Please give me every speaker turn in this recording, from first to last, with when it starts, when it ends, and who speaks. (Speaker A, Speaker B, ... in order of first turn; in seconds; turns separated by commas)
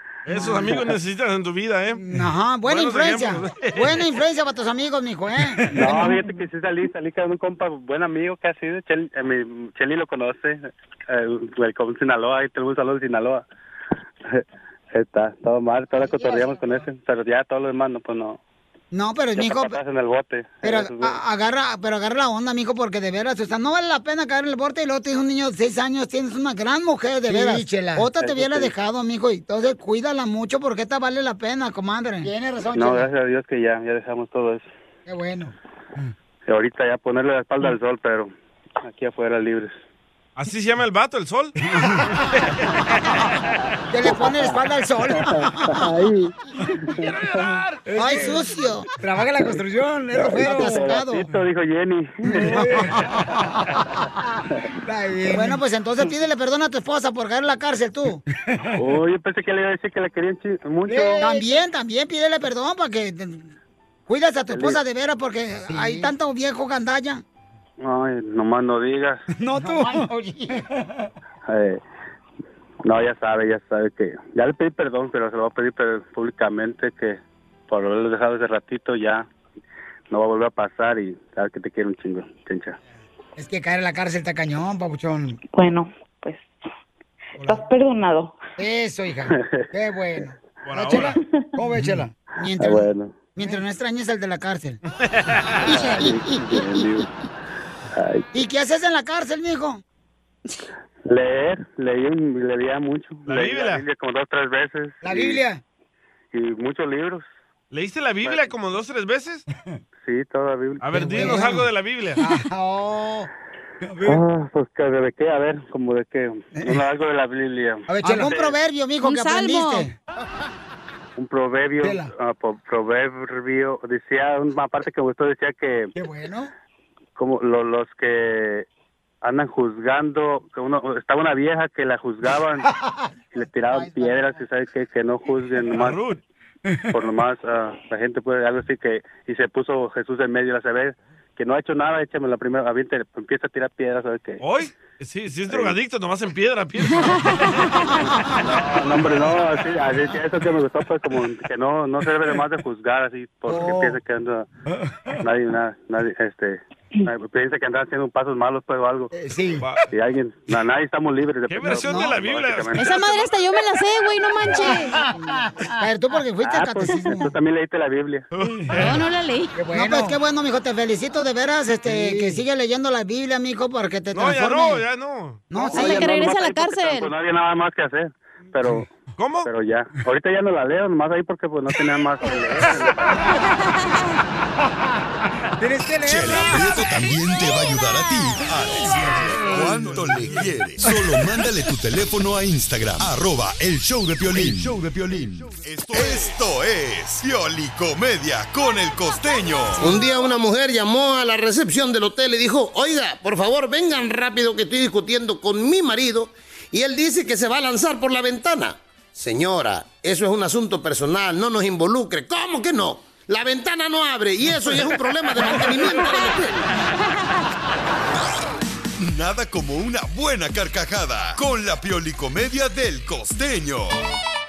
Speaker A: 0.3-2.0, Speaker B: 0.3-0.8, Speaker B: 2.0-6.2, Speaker A: 2.7-4.0, Speaker C: 5.7-13.4, Speaker C: 14.9-18.4, Speaker B: 16.2-16.6, Speaker B: 18.9-19.8, Speaker C: 19.4-21.2, Speaker B: 20.6-33.1, Speaker C: 28.0-28.7, Speaker C: 32.8-34.7, Speaker B: 35.1-36.1, Speaker C: 36.5-38.3, Speaker C: 38.8-39.7, Speaker A: 40.4-41.5, Speaker B: 41.7-42.2, Speaker A: 42.2-43.5, Speaker B: 43.9-45.9, Speaker C: 44.1-44.5, Speaker C: 45.2-47.5, Speaker A: 47.0-48.3, Speaker B: 48.0-51.3, Speaker C: 50.1-53.0, Speaker B: 52.3-53.8, Speaker B: 54.9-58.2, Speaker C: 58.8-61.4, Speaker B: 60.9-63.5, Speaker B: 64.1-67.2, Speaker C: 64.5-64.8, Speaker C: 67.8-69.2, Speaker B: 69.4-70.6, Speaker C: 71.5-71.8, Speaker C: 72.8-79.3, Speaker C: 80.1-82.8, Speaker B: 83.4-85.4, Speaker D: 85.5-86.5, Speaker D: 87.4-88.4, Speaker B: 88.6-94.8, Speaker C: 89.4-89.7, Speaker A: 90.6-91.2, Speaker D: 91.2-91.5, Speaker C: 92.6-93.1, Speaker A: 94.9-95.8, Speaker C: 95.6-97.1, Speaker B: 95.7-96.6, Speaker C: 97.9-98.3, Speaker B: 98.3-99.8, Speaker C: 101.1-105.4, Speaker A: 103.3-103.8, Speaker B: 105.0-105.6, Speaker C: 106.3-107.2, Speaker A: 107.7-109.5, Speaker C: 108.2-108.5, Speaker C: 110.0-111.4, Speaker A: 110.8-112.2, Speaker B: 111.0-111.7, Speaker B: 112.2-113.3, Speaker C: 114.0-118.5, Speaker B: 117.9-119.9, Speaker E: 119.0-119.9, Speaker C: 121.2-125.9, Speaker B: 121.8-122.1, Speaker B: 126.0-126.5, Speaker C: 127.2-128.7, Speaker C: 129.2-132.7, Speaker C: 133.3-136.0, Speaker B: 133.7-134.3, Speaker A: 135.7-136.2, Speaker C: 136.9-144.4, Speaker A: 144.4-147.5, Speaker C: 145.5-145.8, Speaker E: 147.0-147.6, Speaker C: 148.4-154.5, Speaker B: 153.5-154.0, Speaker C: 155.2-159.1, Speaker B: 159.1-159.7, Speaker A: 159.6-159.8, Speaker C: 159.9-163.3, Speaker A: 161.5-163.0, Speaker B: 161.9-162.2, Speaker E: 162.8-165.0, Speaker B: 165.2-167.3, Speaker C: 166.4-168.3, Speaker A: 168.3-169.0, Speaker E: 168.7-169.6, Speaker B: 169.6-174.8, Speaker A: 174.1-175.7, Speaker B: 175.5-176.1, Speaker E: 175.7-177.1, Speaker C: 175.7-178.9, Speaker A: 179.2-179.5, Speaker C: 179.4-183.5, Speaker E: 183.6-184.0, Speaker B: 185.6-186.7, Speaker F: 186.0-199.9, Speaker A: 189.4-190.4, Speaker G: 199.8-216.6, Speaker F: 219.0-224.0